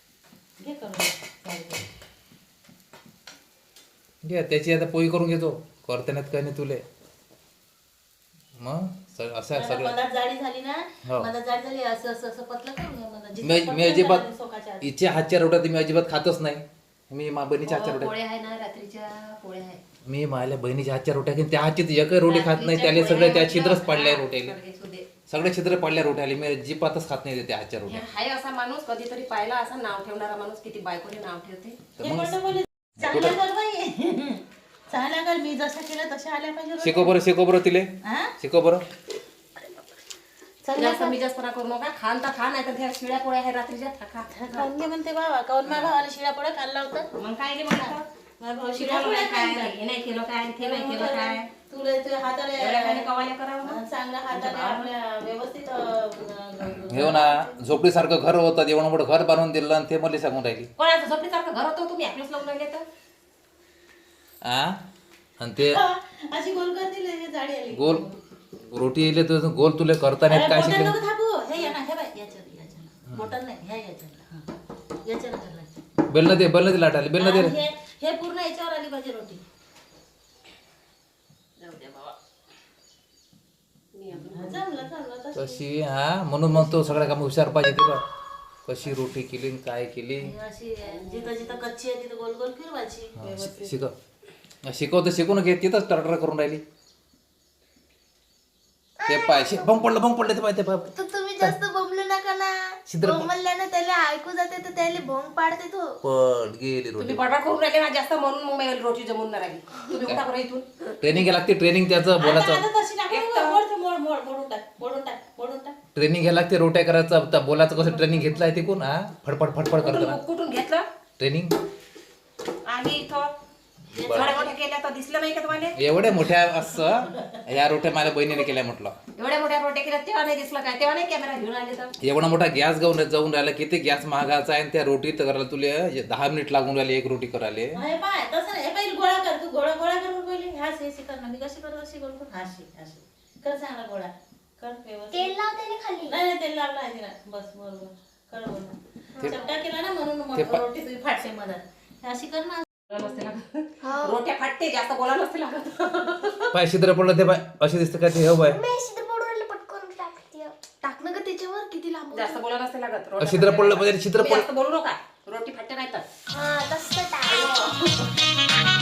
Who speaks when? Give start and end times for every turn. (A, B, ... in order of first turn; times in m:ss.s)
0:00.6-0:01.9 A
0:04.2-0:06.8 B
0:08.6-0:09.9 B
0:09.5-0:14.9 A
0:13.4-0:14.3 B
0:14.8-0:18.1 B
0:17.7-0:19.8 C
0:20.1-0:24.6 B
0:22.2-0:25.1 C
0:25.3-0:28.0 B
0:27.9-0:31.8 C
0:32.0-0:32.4 B
0:32.0-0:37.2 A
0:33.0-0:33.4 B
0:36.8-0:38.8 B
0:38.0-0:38.3 A
0:40.6-0:41.2 A
0:40.8-0:44.7 C
0:44.3-0:47.1 A
0:45.6-0:45.9 C
0:47.2-0:48.0 C
0:47.7-0:49.8 A
0:48.8-0:51.5 C
0:50.6-0:53.1 A
0:52.6-0:53.8 C
0:53.6-0:57.5 A
0:54.3-0:54.9 C
0:56.9-1:00.7 B
1:00.8-1:02.8 C
1:04.4-1:04.8 B
1:05.4-1:05.8 B
1:05.6-1:08.1 A
1:07.7-1:08.0 B
1:08.6-1:10.9 B
1:10.3-1:14.4 A
1:15.0-1:15.8 A
1:16.1-1:17.6 B
1:17.2-1:19.4 A
1:21.6-1:22.1 C
1:23.9-1:24.9 C
1:24.1-1:25.6 A
1:25.4-1:28.0 B
1:28.7-1:30.3 B
1:30.2-1:33.7 A
1:30.8-1:31.7 C
1:33.2-1:33.9 B
1:33.3-1:33.6 C
1:34.6-1:36.6 B
1:39.0-1:39.8 D
1:39.1-1:41.6 B
1:41.0-1:45.9 D
1:41.1-1:41.8 A
1:42.9-1:43.3 B
1:43.0-1:45.0 A
1:45.6-1:45.8 A
1:46.0-1:47.2 B
1:47.0-1:50.7 C
1:51.0-1:52.6 B
1:52.2-1:55.8 A
1:53.1-1:53.6 C
1:56.0-2:00.2 B
1:59.7-2:00.9 C
2:01.2-2:01.5 B
2:02.7-2:03.3 C
2:03.9-2:04.3 B
2:03.9-2:04.5 A
2:04.1-2:05.8 C
2:05.8-2:09.0 B
2:06.7-2:07.4 A
2:09.2-2:12.0 C
2:12.0-2:17.8 B
2:17.8-2:25.4 A
2:25.1-2:26.2 D
2:26.0-2:32.7 A
2:30.4-2:30.6 B
2:32.9-2:36.5 C
2:33.8-2:34.2 D
2:36.5-2:38.6 B
2:38.5-2:42.4 D
2:42.1-2:46.0 C
2:43.2-2:44.5 B
2:46.3-2:47.7 D
2:47.3-2:48.0 C